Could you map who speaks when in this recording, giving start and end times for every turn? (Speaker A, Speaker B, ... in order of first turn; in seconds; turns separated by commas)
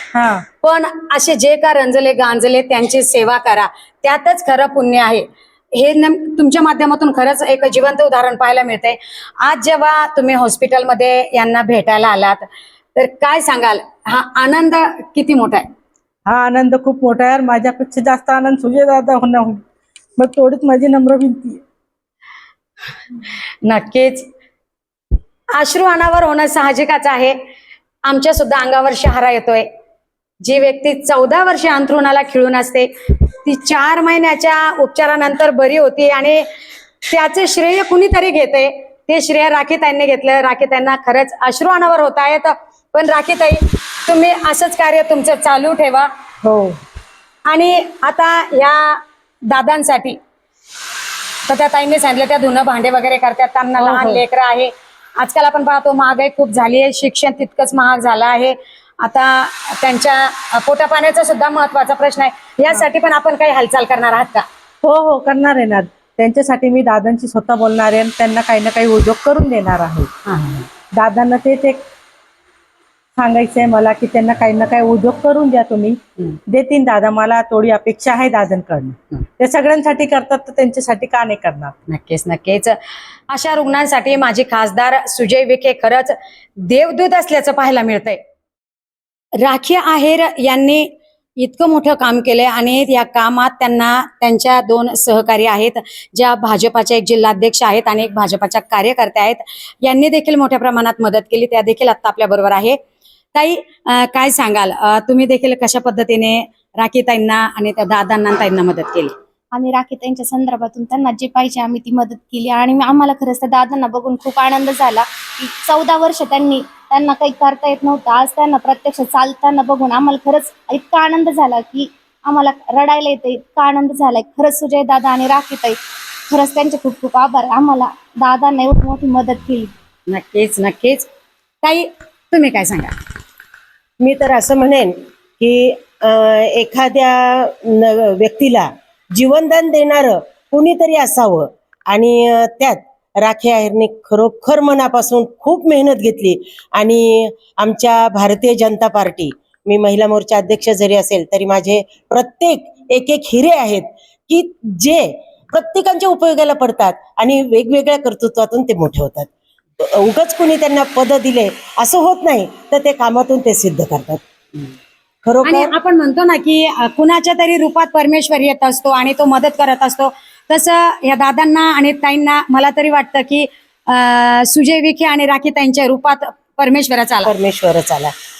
Speaker A: 0.1-0.4, Speaker B: 0.6-12.4, Speaker B: 12.9-15.7, Speaker A: 16.2-19.6, Speaker A: 20.2-21.6, Speaker B: 23.6-24.3, Speaker B: 25.5-27.4, Speaker B: 28.1-29.7, Speaker B: 30.4-36.4, Speaker B: 37.1-46.1, Speaker A: 46.4-46.8, Speaker B: 47.5-50.2, Speaker B: 51.5-64.4, Speaker A: 53.8-54.2, Speaker A: 64.8-70.1, Speaker B: 70.2-70.7, Speaker A: 70.9-71.8, Speaker A: 73.2-81.7, Speaker B: 81.9-82.8, Speaker B: 83.3-88.2, Speaker B: 89.4-102.8, Speaker B: 103.3-109.1, Speaker C: 109.6-125.8, Speaker C: 126.3-129.7, Speaker B: 130.1-131.1, Speaker B: 131.6-132.9, Speaker D: 134.0-164.2, Speaker D: 165.2-165.7, Speaker B: 165.4-177.3, Speaker D: 177.2-178.1